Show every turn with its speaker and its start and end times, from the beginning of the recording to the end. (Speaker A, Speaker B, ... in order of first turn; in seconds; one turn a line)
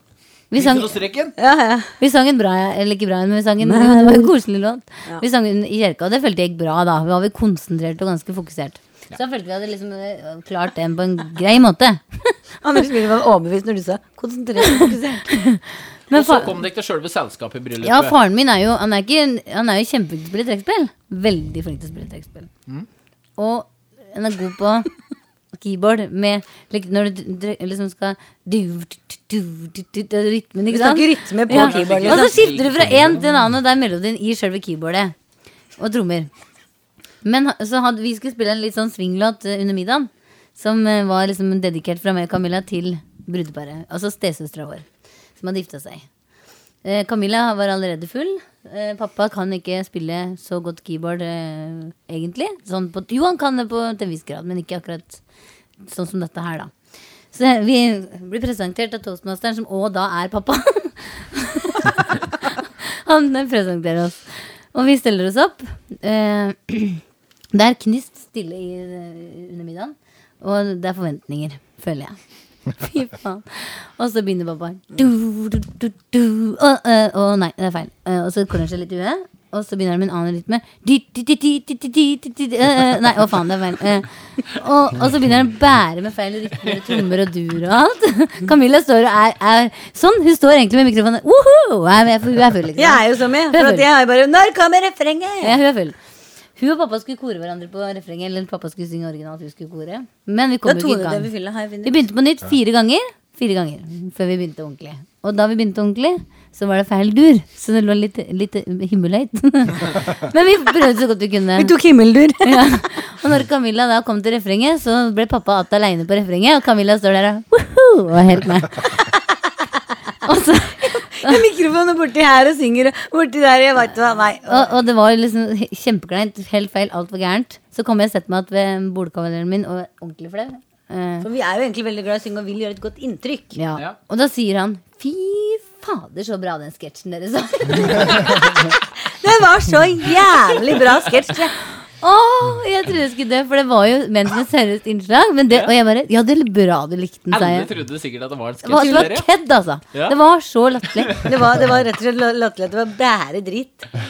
Speaker A: 0.5-0.9
Speaker B: 0.5-1.3
Speaker C: 1.4-2.0
Speaker A: 2.0-12.3
Speaker C: 3.6-4.3
Speaker C: 12.6-15.3
Speaker A: 14.6-16.5
Speaker B: 16.1-18.2
Speaker A: 17.8-22.5
Speaker A: 23.4-24.9
Speaker A: 25.5-35.1
Speaker C: 30.7-32.5
Speaker B: 31.5-33.3
Speaker A: 35.8-36.3
Speaker A: 37.2-44.9
Speaker A: 45.4-46.1
Speaker A: 46.8-55.2
Speaker A: 55.9-56.7
Speaker A: 57.3-67.0
Speaker A: 67.5-72.2
Speaker A: 72.7-93.9
Speaker C: 92.8-95.6
Speaker A: 95.4-96.0
Speaker A: 96.6-101.3
Speaker C: 100.7-101.9
Speaker A: 101.8-111.7
Speaker C: 111.6-112.6
Speaker A: 112.4-118.8
Speaker A: 120.2-121.5
Speaker C: 120.8-124.8
Speaker A: 124.5-131.3
Speaker C: 131.2-133.6
Speaker A: 133.6-138.8
Speaker C: 139.1-141.6
Speaker A: 142.0-147.7
Speaker B: 147.3-149.3
Speaker A: 148.7-151.2
Speaker B: 149.9-150.2
Speaker B: 150.9-151.3
Speaker C: 151.2-153.9